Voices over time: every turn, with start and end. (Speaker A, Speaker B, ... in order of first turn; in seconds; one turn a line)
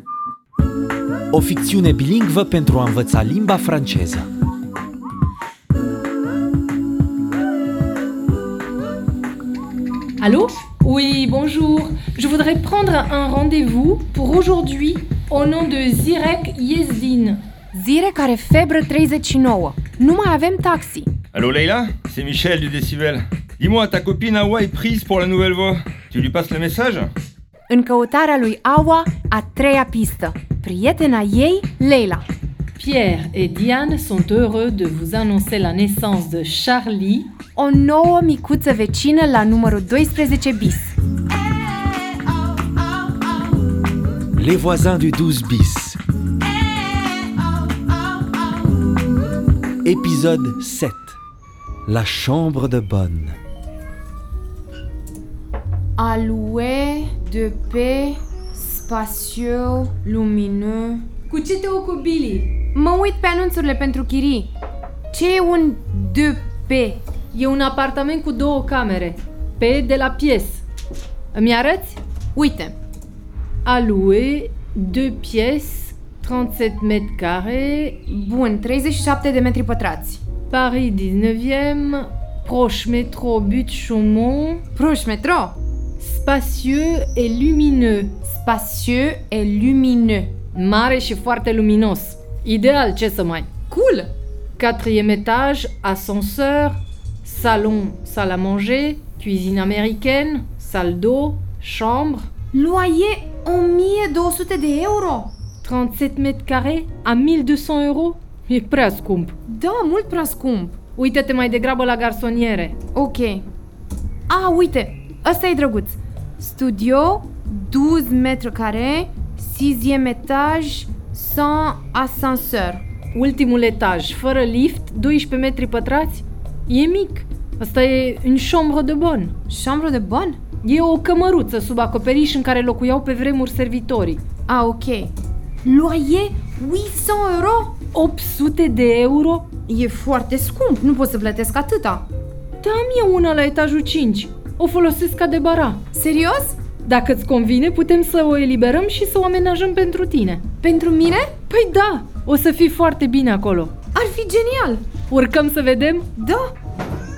Speaker A: 1.3-4.3
Speaker B: 10.2-17.4
Speaker C: 17.7-21.1
Speaker D: 21.3-27.1
Speaker C: 27.7-32.2
Speaker B: 32.8-37.3
Speaker C: 37.5-40.9
Speaker A: 44.4-46.0
Speaker A: 49.8-51.2
Speaker A: 51.9-53.4
Speaker C: 56.0-61.0
Speaker B: 61.3-62.5
Speaker C: 62.7-64.5
Speaker C: 65.1-67.0
Speaker B: 67.3-70.6
Speaker B: 71.3-72.0
Speaker C: 72.3-72.7
Speaker B: 73.6-78.0
Speaker C: 78.1-80.2
Speaker B: 80.5-84.6
Speaker C: 84.7-85.6
Speaker B: 86.0-88.1
Speaker C: 88.2-90.3
Speaker B: 90.5-93.5
Speaker C: 93.7-94.1
Speaker B: 94.6-102.3
Speaker C: 102.5-105.3
Speaker B: 105.6-109.3
Speaker C: 109.5-110.8
Speaker B: 110.9-112.8
Speaker C: 112.9-113.4
Speaker C: 114.3-122.8
Speaker B: 123.1-129.3
Speaker C: 129.5-130.4
Speaker B: 130.6-134.2
Speaker C: 134.5-135.1
Speaker C: 135.6-137.8
Speaker B: 137.9-139.5
Speaker C: 139.7-142.1
Speaker B: 142.6-145.8
Speaker C: 145.9-146.6
Speaker B: 146.8-150.4
Speaker C: 150.6-151.3
Speaker B: 151.5-153.7
Speaker C: 153.9-154.8
Speaker B: 155.1-156.1
Speaker C: 156.2-156.5